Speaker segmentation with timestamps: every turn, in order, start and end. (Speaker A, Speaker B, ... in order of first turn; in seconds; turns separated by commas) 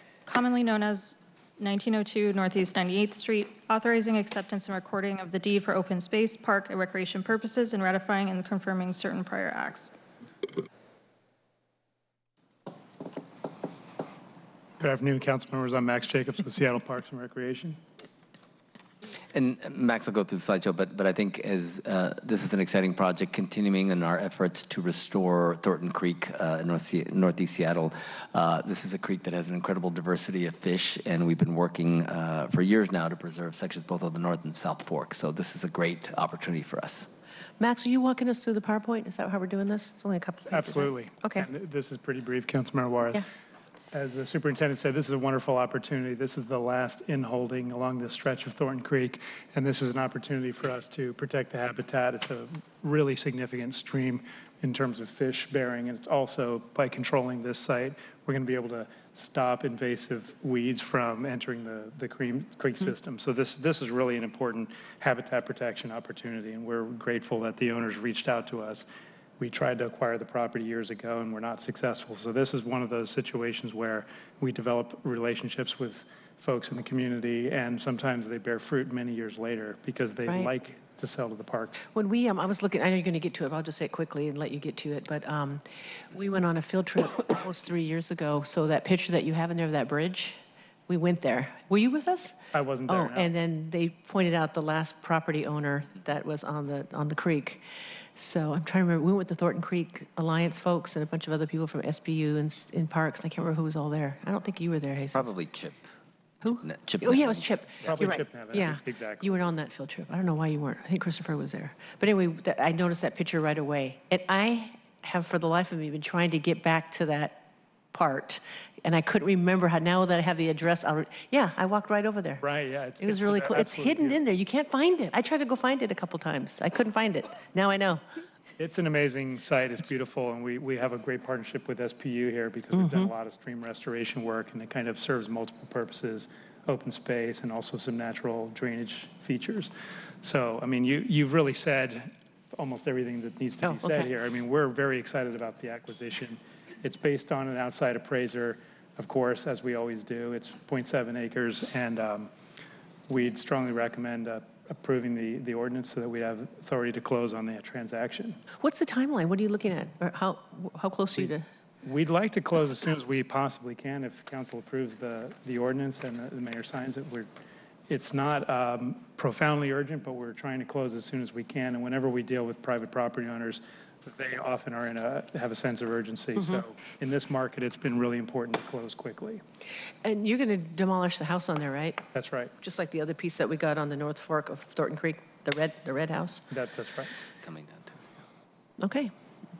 Speaker A: 0.3-9.9, Speaker B: 14.8-17.8, Speaker C: 19.3-37.1, Speaker D: 37.6-41.5, Speaker B: 40.5-43.2, Speaker B: 43.9-68.9, Speaker B: 69.4-81.8, Speaker D: 81.9-97.6, Speaker B: 92.5-93.3, Speaker D: 98.2-105.3, Speaker C: 105.1-105.8, Speaker D: 106.4-122.4, Speaker C: 106.5-107.5, Speaker B: 107.8-109.4, Speaker B: 122.4-124.2, Speaker D: 123.0-128.0, Speaker B: 128.6-152.3, Speaker D: 132.8-133.1, Speaker D: 143.6-144.1, Speaker B: 153.1-158.4, Speaker D: 158.6-161.4, Speaker B: 161.8-167.3, Speaker B: 167.9-179.4, Speaker D: 180.0-182.0, Speaker B: 182.1-182.5, Speaker D: 182.6-186.4, Speaker B: 186.5-187.1, Speaker C: 187.4-188.0, Speaker D: 188.8-189.1